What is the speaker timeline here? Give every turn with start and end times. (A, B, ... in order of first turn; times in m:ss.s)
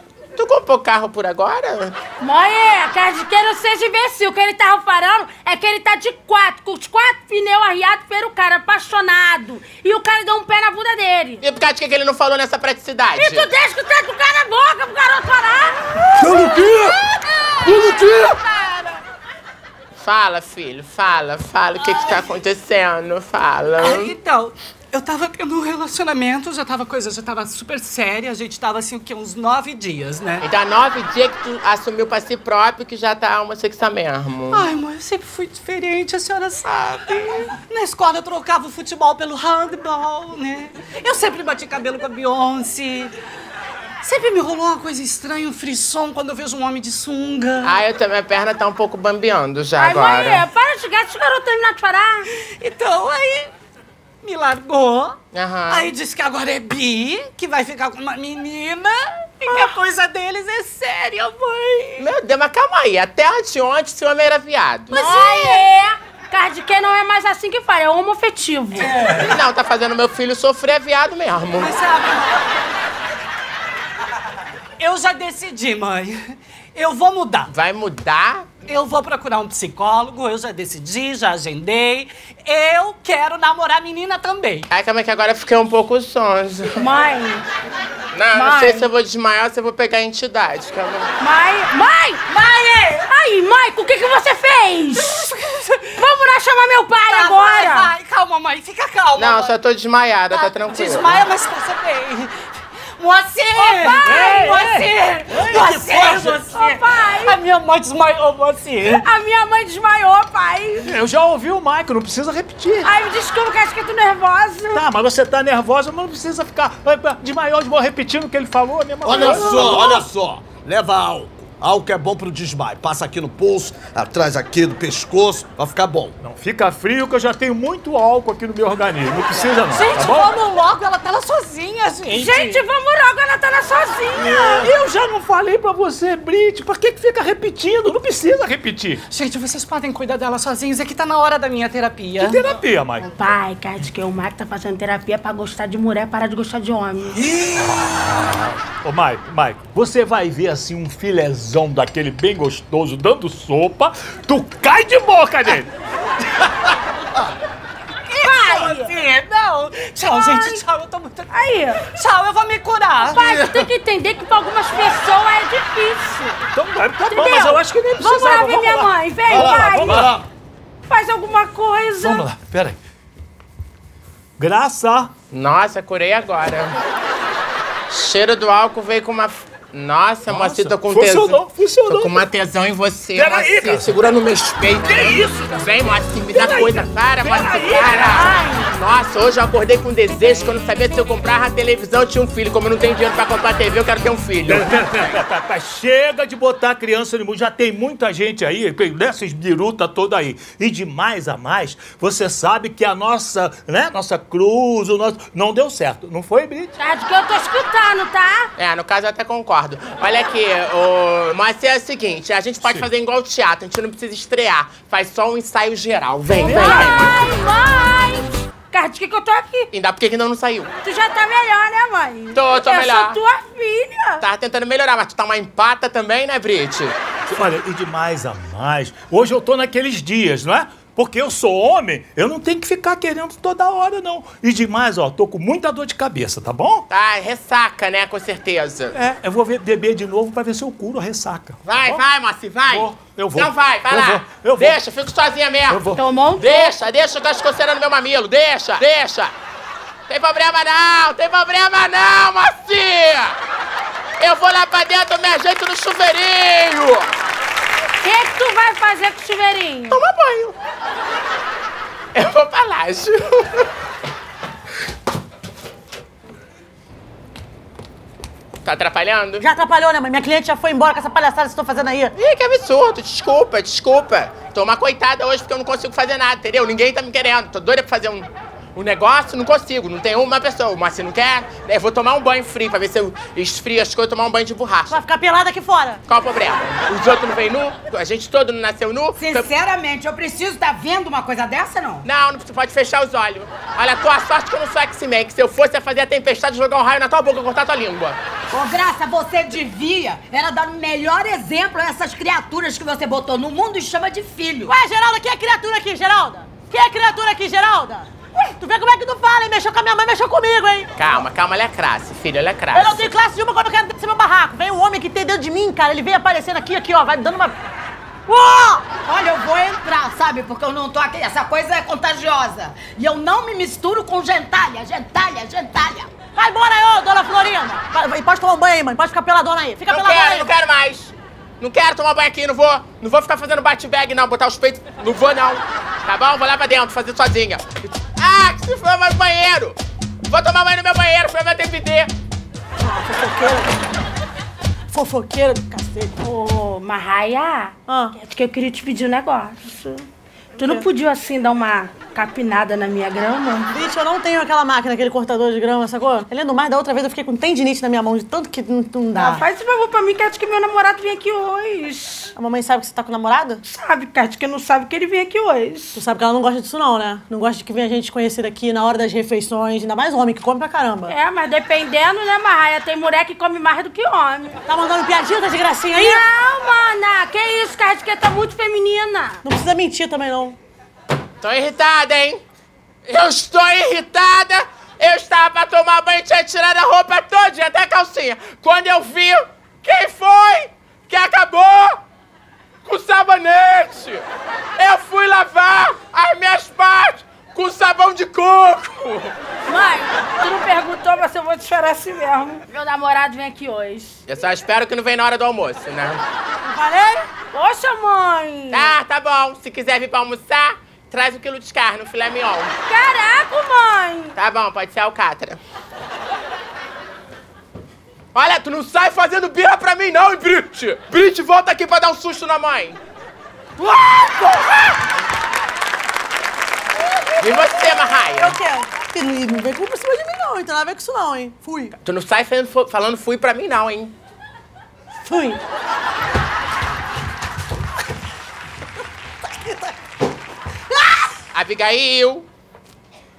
0:00.4-0:01.9 A
0:02.2-0:11.4 B
0:11.4-0:13.5 A
0:13.2-0:15.8 B
0:20.0-0:24.1 A
0:23.8-0:30.4 C
0:30.4-0:34.7 A
0:34.5-0:43.1 C
0:44.0-0:47.8 C
0:47.6-0:50.4 A
0:49.8-0:52.3 B
0:52.3-0:53.5 C
0:54.2-0:55.2 C
0:55.3-0:55.9 A
0:55.7-1:02.1 C
1:02.0-1:05.0 A
1:04.9-1:09.0 B
1:04.9-1:05.6 C
1:09.0-1:11.7 A
1:11.6-1:12.5 C
1:14.8-1:17.5 C
1:17.5-1:18.5 A
1:18.6-1:24.7 C
1:24.7-1:26.8 A
1:26.8-1:27.4 B
1:28.1-1:31.1 A
1:28.3-1:28.9 B
1:31.2-1:35.2 B
1:32.3-1:33.0 C
1:35.2-1:35.9 C
1:36.0-1:37.9 B
1:37.1-1:39.6 C
1:39.2-1:41.2 A
1:40.3-1:49.0 C
1:43.5-1:44.7 B
1:44.0-1:46.4 D
1:46.4-1:47.4 B
1:48.8-1:50.9 B
1:50.8-1:52.9 D
1:52.8-1:54.8 B
1:54.7-1:59.9 D
1:59.0-2:06.2 E
1:59.2-2:00.0 B
2:06.2-2:10.3 D
2:09.7-2:10.1 B
2:09.7-2:12.4 C
2:12.1-2:14.7 B
2:12.2-2:12.6 D
2:14.2-2:19.0 D
2:19.1-2:22.5 C
2:22.2-2:23.1 D
2:23.0-2:27.2 B
2:27.3-2:35.7 D
2:38.1-2:41.3 C
2:38.2-2:38.9 B
2:40.1-2:40.6 B
2:41.3-2:41.8 B
2:41.8-2:43.2 C
2:43.0-2:46.4 B
2:43.1-2:43.6 D
2:46.5-2:50.1 D
2:47.0-2:50.1 B
2:49.3-2:50.2 E
2:50.9-2:52.3 B
2:52.0-2:52.8 D
2:54.4-2:55.1 D
2:55.3-2:56.7 A
2:57.9-3:15.0 A
3:00.3-3:02.3 D
3:03.1-3:04.2 D
3:04.8-3:05.6 D
3:06.4-3:06.7 D
3:07.6-3:08.7 B
3:07.8-3:08.3 D
3:14.4-3:26.7 D
3:26.8-3:28.5 B
3:28.6-3:37.2 A
3:36.4-3:39.7 B
3:36.4-3:37.2 D
3:39.7-3:40.7 A
3:40.8-3:44.2 B
3:42.3-3:43.2 A
3:44.2-3:46.9 A
3:47.3-3:56.8 D
3:56.9-3:59.0 A
3:58.9-4:02.0 D
4:01.6-4:09.3 A
4:02.7-4:04.8 D
4:05.7-4:06.0 D
4:05.9-4:06.7 B
4:10.1-4:13.4 A
4:14.2-4:17.1 A
4:18.0-4:20.0 B
4:19.9-4:20.5 A
4:22.1-4:23.7 A
4:28.6-4:29.4 A
4:29.4-4:32.1 F
4:32.2-4:45.0 A
4:44.9-4:46.0 F
4:46.1-4:49.5 A
4:49.2-4:52.0 G
4:52.0-4:58.2 A
4:58.5-5:04.7 G
5:04.6-5:10.9 F
5:11.0-5:13.1 A
5:12.7-5:17.6 F
5:18.3-5:18.9 F
5:19.0-5:26.1 G
5:26.3-5:30.5 F
5:29.9-5:39.8 A
5:40.3-5:42.1 A
5:42.8-5:43.7 F
5:44.9-5:46.2 F
5:46.2-5:50.0 B
5:47.9-5:48.1 F
5:50.6-5:53.7 B
5:53.7-5:59.4 F
5:59.1-6:02.3 B
6:02.4-6:03.6 F
6:03.7-6:06.0 B
6:06.0-6:11.1 F
6:11.1-6:14.6 B
6:14.7-6:16.2 F
6:15.9-6:19.4 B
6:19.4-6:20.6 F
6:21.4-6:22.4 A
6:23.0-6:32.0 A
6:32.8-6:34.2 A
6:34.8-6:39.3 A
6:39.7-6:44.2 B
6:44.3-6:46.2 A
6:46.6-6:47.2 F
6:47.5-6:48.9 B
6:48.7-6:52.7 A
6:52.9-6:54.3 B
6:54.4-6:55.6 A
6:58.3-7:03.0 A
7:04.0-7:04.3 F
7:07.4-7:08.6 A
7:08.4-7:11.9 F
7:12.0-7:14.1 A
7:15.2-7:15.6 F
7:21.5-7:22.4 A